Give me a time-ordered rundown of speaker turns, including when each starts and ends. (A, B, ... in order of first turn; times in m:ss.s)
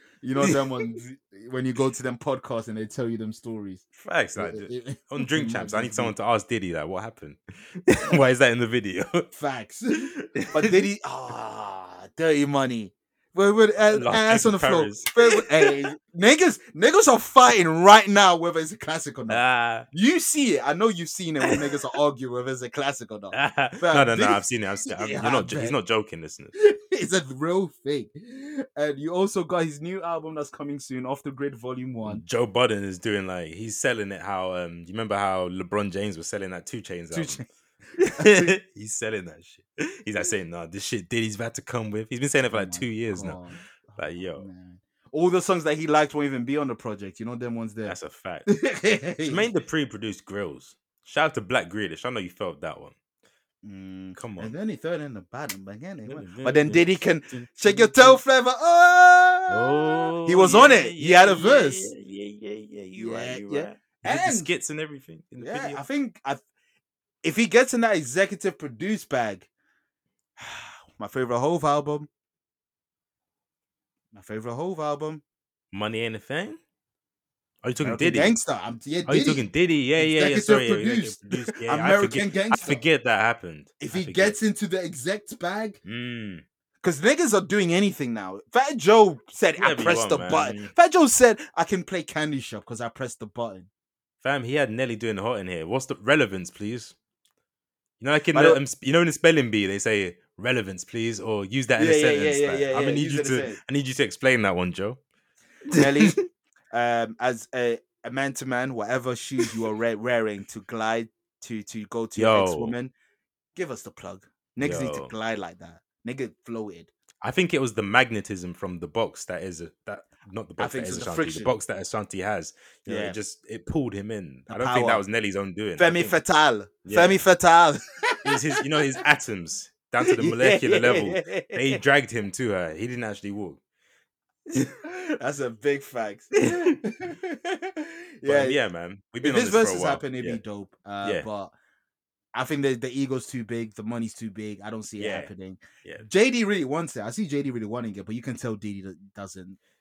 0:00.2-0:06.1 A
0:03.9-0:09.3 B
0:09.3-0:25.8 A
0:10.3-0:10.8 B
0:13.8-0:15.7 B
0:19.3-0:19.9 B
0:23.3-0:26.5 B
0:26.5-0:32.2 A
0:32.0-0:37.4 B
0:37.1-0:37.4 A
0:38.0-0:43.4 B
0:38.0-0:38.5 A
0:42.5-0:49.5 A
0:44.0-0:44.4 B
0:47.8-0:48.5 B
0:49.2-0:52.9 B
0:53.6-1:01.9 A
0:54.2-0:54.5 B
0:56.0-0:58.2 B
0:59.5-1:05.8 B
1:03.0-1:04.5 A
1:05.4-1:06.4 A
1:07.2-1:09.5 A
1:10.4-1:12.1 A
1:14.1-1:15.2 A
1:15.7-1:16.6 B
1:17.6-1:18.4 B
1:17.8-1:19.4 A
1:19.0-1:24.4 B
1:20.0-1:22.8 A
1:23.8-1:25.8 A
1:25.8-1:26.4 B
1:26.8-1:33.7 A
1:29.6-1:30.7 B
1:34.2-1:36.9 B
1:38.0-1:45.0 B
1:38.3-1:38.6 A
1:41.8-1:43.6 A
1:45.7-1:46.2 A
1:45.7-1:46.1 B
1:46.7-1:52.9 A
1:52.2-1:52.8 B
1:53.5-1:56.9 A
1:54.6-1:55.1 B
1:57.2-2:06.1 B
2:00.6-2:01.5 A
2:02.9-2:03.2 A
2:04.5-2:05.0 A
2:05.8-2:09.0 A
2:06.8-2:07.2 B
2:08.2-2:13.6 B
2:10.0-2:11.8 A
2:14.8-2:18.6 A
2:18.2-2:20.4 B
2:19.2-2:21.5 A
2:22.3-2:29.6 A
2:25.0-2:25.3 B